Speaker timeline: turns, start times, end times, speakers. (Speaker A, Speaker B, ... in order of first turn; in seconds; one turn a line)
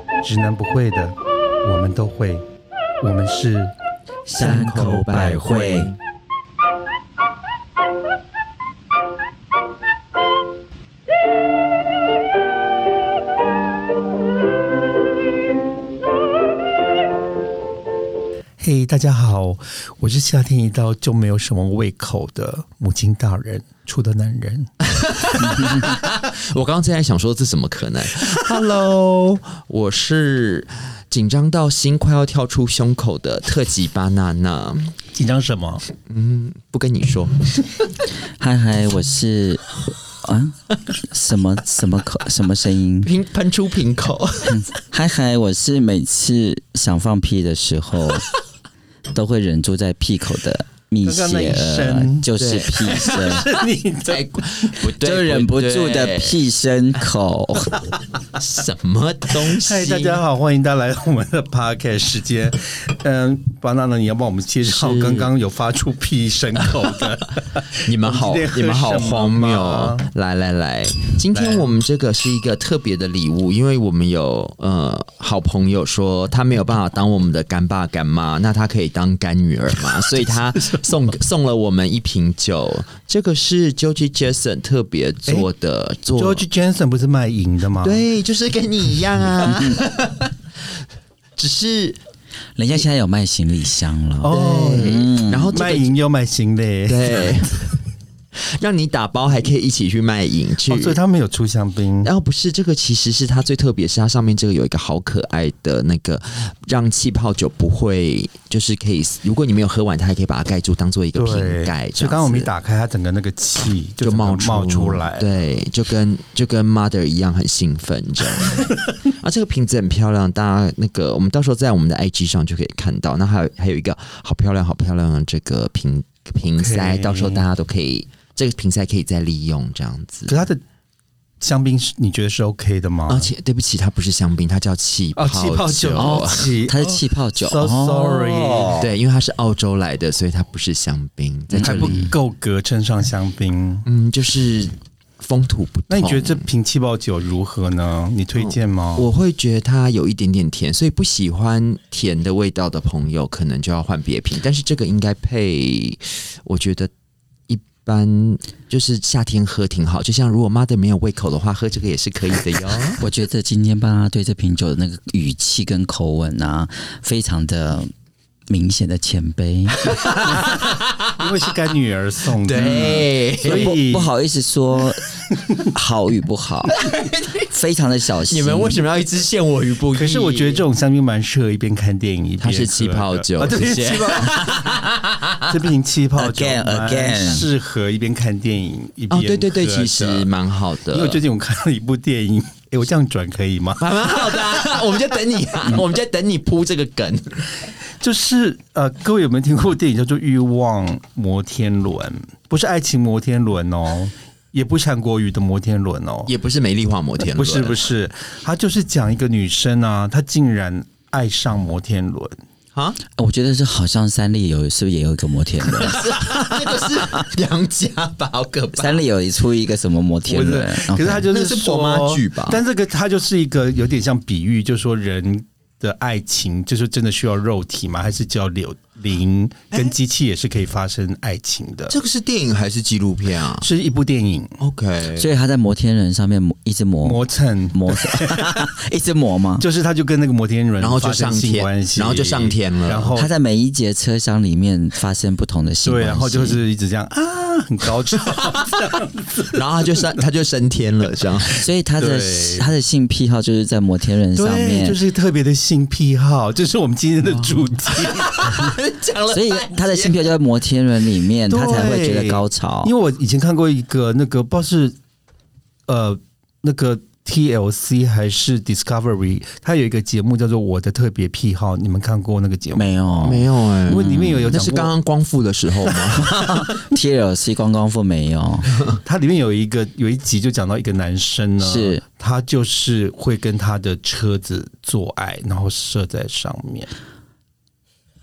Speaker A: 0.2-2.4
Speaker A: 3.0-3.7
Speaker B: 4.3-5.9
Speaker C: 4.4-6.0
Speaker A: 4.4-5.3
Speaker A: 18.6-24.7
Speaker C: 24.8-34.9
Speaker A: 35.1-35.8
Speaker C: 36.0-37.5
Speaker B: 38.4-39.6
Speaker B: 40.2-43.1
Speaker C: 43.0-44.7
Speaker B: 44.5-48.3
Speaker B: 49.1-53.4
Speaker A: 51.0-52.3
Speaker C: 52.4-53.2
Speaker A: 52.8-54.7
Speaker C: 54.1-56.4
Speaker B: 55.0-57.9
Speaker C: 58.3-60.2
Speaker A: 59.5-70.0
Speaker C: 64.6-65.3
Speaker C: 67.8-86.4
Speaker A: 71.3-71.7
Speaker A: 86.1-88.0
Speaker C: 87.8-90.3
Speaker C: 91.4-92.0
Speaker B: 92.6-95.5
Speaker A: 94.2-97.5
Speaker C: 94.3-95.9
Speaker C: 96.9-97.7
Speaker C: 98.3-101.0
Speaker A: 100.7-102.1
Speaker C: 102.0-112.5
Speaker A: 111.2-115.3
Speaker C: 114.0-130.3
Speaker A: 126.6-127.4
Speaker A: 130.3-130.6
Speaker A: 131.4-133.3
Speaker C: 133.1-136.5
Speaker A: 135.2-138.8
Speaker B: 136.0-138.9
Speaker C: 138.8-142.1
Speaker B: 141.5-142.0
Speaker A: 141.6-143.8
Speaker C: 143.8-146.4
Speaker A: 145.9-149.1
Speaker C: 148.4-156.9
Speaker C: 157.5-163.0
Speaker B: 163.0-167.9
Speaker B: 168.5-169.9
Speaker C: 169.8-171.1
Speaker A: 170.3-174.1
Speaker C: 172.4-173.8
Speaker B: 172.6-175.1
Speaker B: 175.7-176.8
Speaker C: 176.9-177.4
Speaker B: 177.5-178.8
Speaker C: 178.3-180.6
Speaker A: 179.9-184.7
Speaker C: 182.4-185.5
Speaker A: 185.5-190.3
Speaker B: 186.2-187.4
Speaker C: 189.1-191.2
Speaker A: 190.9-194.2
Speaker C: 193.8-197.4
Speaker A: 198.0-206.3
Speaker C: 206.3-207.9
Speaker A: 207.2-212.4
Speaker B: 213.2-216.6
Speaker C: 215.7-219.0
Speaker B: 218.8-221.3
Speaker A: 220.3-231.9
Speaker C: 221.3-222.6
Speaker C: 231.9-233.7
Speaker A: 233.6-234.5
Speaker C: 234.6-235.3
Speaker B: 235.2-237.2
Speaker A: 237.0-238.7
Speaker B: 237.7-239.6
Speaker A: 239.6-243.3
Speaker C: 240.8-243.1
Speaker B: 243.2-246.6
Speaker A: 245.8-249.6
Speaker C: 249.5-251.6
Speaker B: 251.6-255.0
Speaker A: 252.0-252.7
Speaker A: 254.3-258.7
Speaker C: 257.9-260.2
Speaker B: 259.3-262.9
Speaker A: 261.5-264.9
Speaker A: 265.9-272.9
Speaker B: 272.8-274.6
Speaker C: 273.2-276.6
Speaker A: 273.9-274.9
Speaker B: 276.3-278.7
Speaker A: 279.0-286.9
Speaker B: 281.6-282.0